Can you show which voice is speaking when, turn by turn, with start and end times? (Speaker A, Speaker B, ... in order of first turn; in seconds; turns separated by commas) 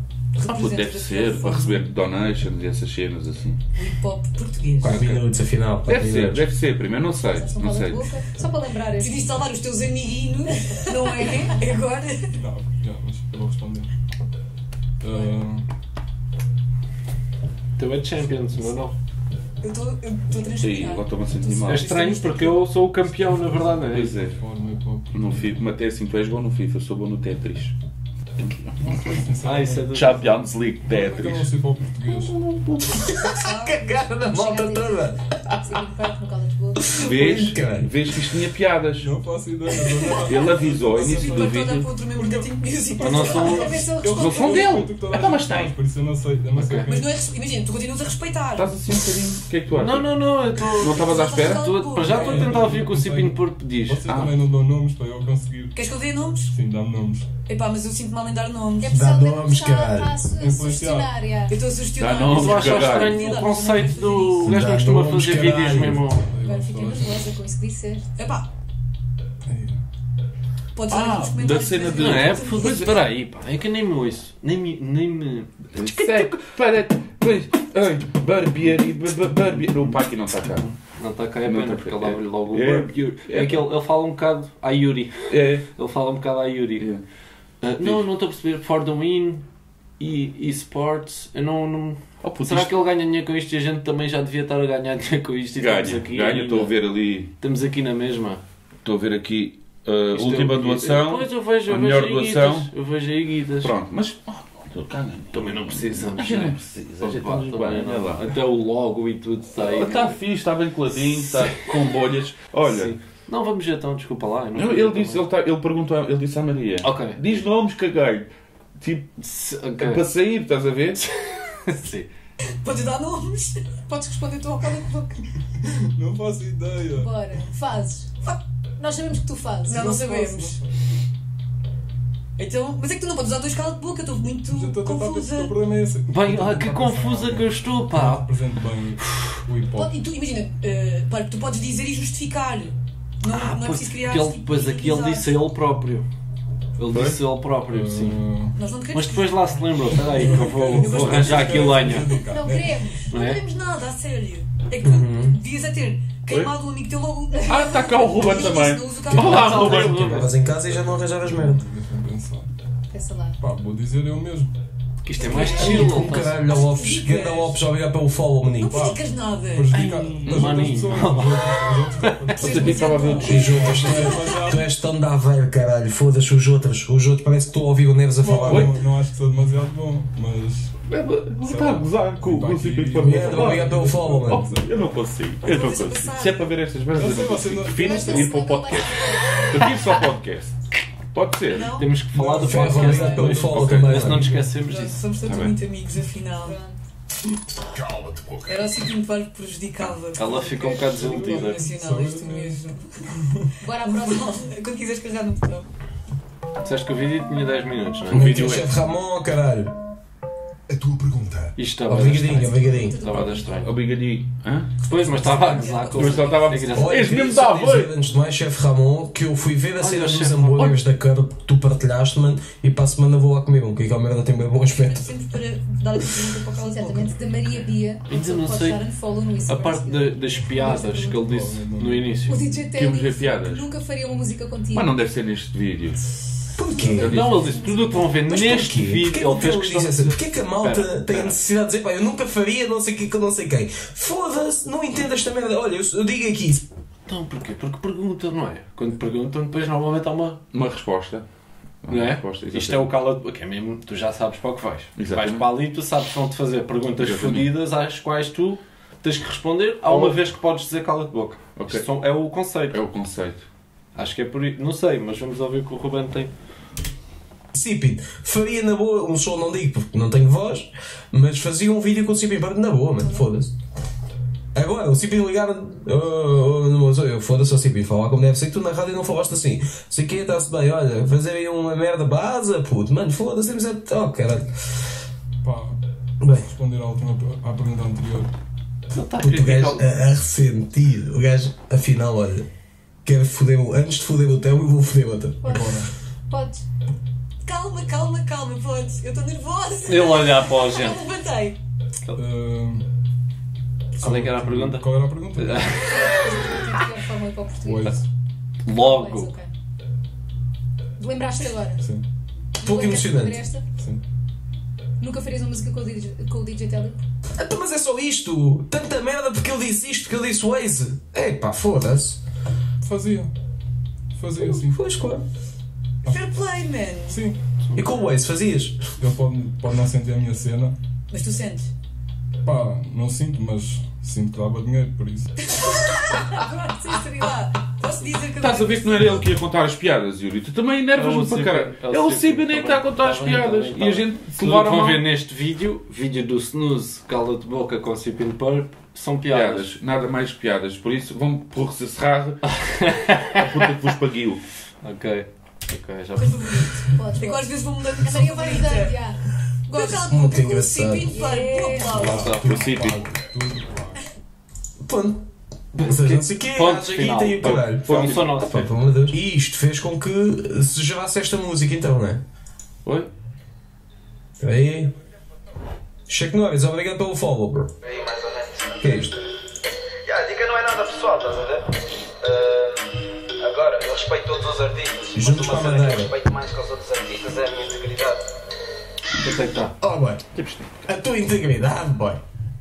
Speaker A: 0.4-1.8, Speaker B: 0.4-3.6, Speaker A: 3.8-5.0, Speaker B: 4.8-5.2, Speaker C: 4.8-6.5, Speaker B: 5.8-8.2, Speaker D: 7.3-9.4, Speaker A: 8.9-12.3, Speaker D: 11.1-11.5, Speaker E: 12.3-13.9, Speaker E: 15.0-15.7, Speaker F: 17.8-18.9, Speaker A: 19.6-22.5, Speaker B: 20.6-22.1, Speaker F: 21.6-24.1, Speaker E: 23.4-25.6, Speaker B: 23.9-24.4, Speaker B: 25.1-27.7, Speaker B: 28.4-29.2, Speaker E: 28.8-30.0, Speaker F: 29.4-30.4, Speaker B: 29.9-33.0, Speaker E: 30.8-32.4, Speaker C: 33.0-35.2, Speaker A: 33.3-34.1, Speaker D: 34.2-37.1, Speaker C: 36.8-38.3, Speaker B: 36.9-39.1, Speaker E: 39.0-47.0, Speaker A: 39.7-43.7, Speaker B: 40.2-41.9, Speaker F: 43.0-43.8, Speaker D: 43.5-44.8, Speaker B: 44.1-45.7, Speaker F: 46.5-46.9, Speaker A: 46.9-48.8, Speaker B: 48.5-51.7, Speaker F: 49.8-54.0, Speaker A: 50.9-52.5, Speaker E: 52.0-57.3, Speaker B: 54.0-54.5, Speaker A: 55.7-56.5, Speaker A: 57.5-59.0, Speaker D: 58.8-61.6, Speaker C: 58.9-60.2, Speaker E: 60.4-61.1, Speaker A: 61.5-64.6, Speaker B: 62.0-63.3, Speaker F: 62.2-66.3, Speaker C: 64.4-66.0, Speaker E: 64.9-67.3, Speaker A: 66.4-67.0, Speaker D: 66.7-68.1, Speaker A: 68.2-68.5, Speaker E: 69.5-69.8, Speaker A: 70.7-72.9, Speaker B: 70.9-72.9, Speaker F: 71.9-76.4, Speaker B: 75.7-80.7, Speaker F: 80.8-86.9, Speaker B: 81.4-83.6, Speaker B: 85.3-85.7, Speaker F: 87.6-89.4, Speaker B: 87.8-88.0, Speaker F: 90.0-96.8, Speaker B: 92.2-92.7, Speaker B: 95.6-97.3, Speaker F: 97.4-98.4, Speaker B: 98.8-102.7, Speaker F: 100.1-103.7, Speaker B: 103.6-108.3, Speaker F: 105.3-110.2, Speaker B: 109.6-112.9, Speaker F: 111.2-111.8, Speaker F: 112.7-115.2, Speaker B: 114.5-119.1, Speaker F: 116.8-117.2, Speaker F: 119.2-120.0, Speaker B: 119.8-121.0, Speaker F: 121.0-122.1, Speaker A: 122.5-124.3, Speaker D: 123.9-125.2, Speaker E: 125.9-127.1, Speaker D: 126.9-128.2, Speaker D: 128.8-129.9, Speaker A: 129.6-130.6, Speaker E: 129.7-130.7, Speaker A: 132.4-135.6, Speaker E: 134.5-140.0, Speaker F: 136.1-138.2, Speaker A: 139.7-145.3, Speaker F: 143.2-146.1, Speaker F: 146.8-148.2, Speaker E: 147.6-148.7, Speaker A: 148.6-149.6, Speaker F: 148.9-152.1, Speaker E: 149.8-153.0, Speaker A: 150.1-152.2, Speaker D: 151.9-153.0, Speaker A: 153.0-159.9, Speaker F: 153.1-153.4, Speaker C: 154.8-155.4, Speaker B: 157.5-160.1, Speaker C: 159.1-161.6, Speaker F: 159.2-160.3, Speaker E: 160.5-162.5, Speaker D: 162.9-163.4, Speaker E: 163.4-164.5, Speaker F: 165.0-166.6, Speaker A: 165.2-166.1, Speaker C: 165.4-168.9, Speaker A: 166.7-167.5, Speaker A: 168.6-169.8, Speaker E: 168.7-169.0, Speaker E: 169.5-174.6, Speaker F: 169.7-172.7, Speaker C: 170.3-170.6, Speaker B: 172.4-173.8, Speaker A: 172.4-174.5, Speaker C: 173.1-178.7, Speaker E: 178.2-180.8, Speaker B: 178.4-178.7, Speaker B: 180.9-190.5, Speaker E: 181.4-184.8, Speaker C: 183.0-184.4, Speaker A: 185.4-186.5, Speaker E: 186.9-188.4, Speaker D: 187.7-190.0, Speaker B: 191.1-191.8, Speaker A: 191.5-191.9, Speaker F: 191.7-195.0, Speaker E: 192.1-194.4, Speaker C: 192.4-194.3, Speaker A: 192.6-193.4, Speaker B: 193.5-194.2, Speaker A: 194.5-196.6, Speaker B: 195.2-195.6, Speaker D: 196.4-196.8, Speaker A: 198.4-202.9, Speaker F: 200.1-201.7, Speaker E: 200.9-203.4, Speaker D: 203.6-204.4, Speaker A: 203.7-205.7, Speaker F: 206.6-208.6, Speaker C: 208.1-209.7, Speaker B: 208.1-208.7, Speaker C: 210.9-211.3, Speaker F: 211.6-213.7, Speaker C: 211.9-213.0, Speaker D: 212.2-213.5, Speaker B: 213.4-214.7, Speaker F: 214.8-217.3, Speaker A: 215.3-216.3, Speaker B: 215.9-217.9, Speaker C: 216.7-225.1, Speaker F: 219.8-220.7, Speaker A: 224.7-227.7, Speaker D: 226.6-230.1, Speaker F: 228.1-228.8, Speaker F: 229.4-232.5, Speaker A: 229.6-229.9, Speaker A: 230.5-231.2, Speaker E: 231.1-232.6, Speaker D: 232.2-234.9, Speaker B: 232.7-233.7, Speaker B: 234.7-236.0, Speaker C: 236.5-237.2, Speaker D: 236.8-238.0, Speaker B: 236.9-237.3, Speaker F: 237.0-241.4, Speaker C: 238.3-246.6, Speaker F: 247.1-250.4, Speaker B: 250.5-251.2, Speaker B: 251.8-252.9, Speaker F: 251.9-262.8, Speaker B: 254.9-255.4, Speaker B: 257.0-257.5, Speaker B: 259.8-260.2, Speaker B: 261.6-261.9, Speaker B: 262.7-263.4, Speaker F: 263.9-266.3, Speaker C: 267.5-273.5, Speaker C: 274.5-284.5, Speaker E: 285.4-285.8, Speaker C: 286.2-286.5, Speaker E: 286.4-288.3, Speaker F: 288.9-289.8, Speaker C: 289.2-292.4, Speaker C: 293.0-295.7, Speaker D: 295.4-296.6, Speaker E: 295.5-295.9, Speaker A: 297.4-301.6, Speaker F: 299.8-301.1, Speaker E: 302.1-302.9, Speaker F: 304.0-306.6, Speaker E: 304.0-305.9, Speaker D: 305.8-307.9, Speaker E: 307.6-308.0, Speaker F: 308.6-309.3, Speaker D: 308.7-309.5, Speaker D: 311.0-311.9, Speaker E: 311.8-312.0, Speaker D: 312.6-313.6, Speaker C: 312.6-313.4, Speaker E: 313.8-314.0, Speaker D: 315.0-317.0, Speaker C: 317.4-322.2, Speaker E: 322.8-323.3, Speaker E: 324.1-324.8, Speaker C: 324.4-325.2, Speaker E: 326.0-326.3, Speaker A: 326.0-327.2, Speaker E: 327.1-327.4, Speaker C: 327.7-328.8, Speaker E: 329.0-330.8, Speaker A: 331.1-331.7, Speaker E: 332.4-335.3, Speaker A: 335.5-339.3, Speaker B: 338.3-345.1, Speaker F: 340.9-349.7, Speaker B: 349.3-352.6, Speaker F: 352.6-353.4, Speaker B: 353.3-354.4, Speaker F: 354.8-356.8, Speaker A: 356.1-359.0, Speaker D: 356.9-359.9, Speaker A: 359.7-362.4, Speaker C: 359.8-361.2, Speaker D: 361.1-362.0, Speaker B: 361.9-363.0, Speaker E: 361.9-364.0, Speaker F: 362.1-362.4, Speaker C: 364.8-372.2, Speaker F: 365.8-368.7, Speaker B: 367.4-368.6, Speaker C: 374.4-374.9, Speaker C: 376.1-377.7, Speaker G: 377.8-378.8, Speaker C: 378.8-379.1, Speaker G: 380.0-388.2, Speaker C: 385.1-386.1, Speaker F: 389.2-389.7, Speaker C: 389.8-390.2, Speaker B: 390.3-390.8, Speaker C: 390.8-392.2